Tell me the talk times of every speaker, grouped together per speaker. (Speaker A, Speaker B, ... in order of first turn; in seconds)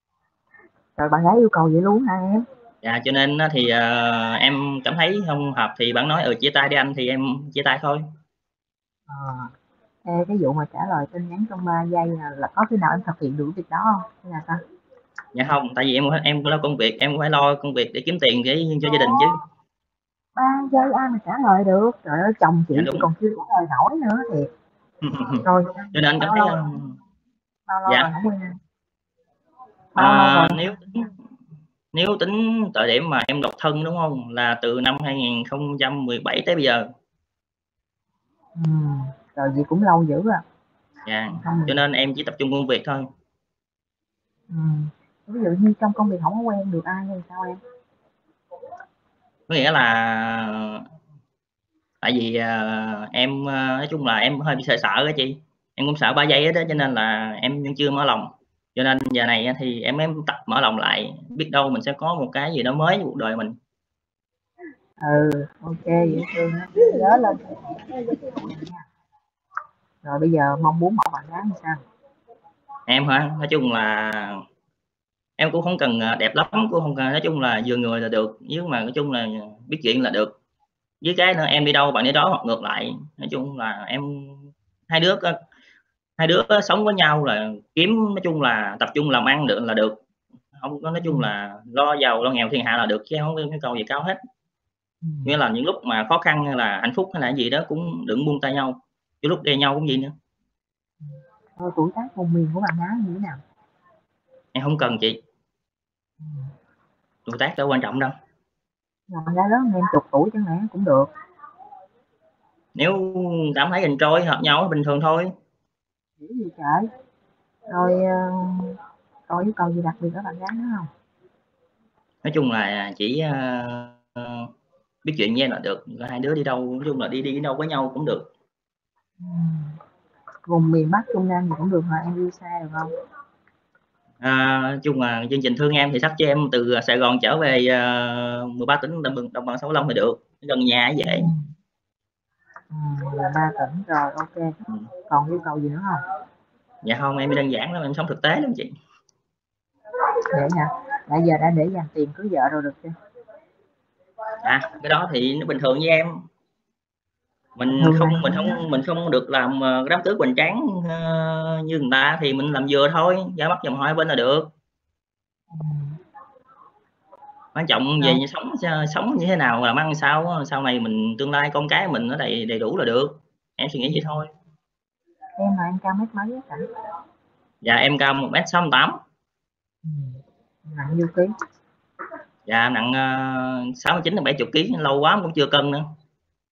Speaker A: 1.0-2.4, 9.1-9.5, 10.0-14.6, 20.4-24.5, 25.4-26.5, 27.7-28.5, 29.9-30.6, 38.5-40.4, 41.4-41.8, 44.5-47.6, 65.0-67.4, 68.2-68.8, 70.0-71.8, 95.0-95.3, 101.6-103.4, 109.1-111.1, 116.2-116.8, 117.7-118.8, 119.3-120.9, 129.2-129.7, 130.5-132.9, 141.0-141.4, 142.7-144.5, 145.1-146.0, 150.3-152.9, 157.7-158.6, 165.5-165.9, 175.4-176.7, 179.8-181.3
Speaker B: 2.8-8.0, 15.3-19.4, 22.7-23.1, 25.0-26.9, 27.9-28.1, 29.9-31.1, 31.9-36.8, 41.0-43.1, 49.5-50.8, 52.0-63.5, 72.9-74.4, 75.4-80.3, 81.0-85.3, 86.2-90.0, 90.6-94.2, 95.2-100.1, 104.5-105.2, 107.2-108.1, 112.7-115.3, 122.2-124.5, 125.0-128.3, 134.2-141.3, 146.8-148.7, 154.4-156.2, 157.6-164.5, 167.5-174.3, 177.6-179.0, 182.5-185.8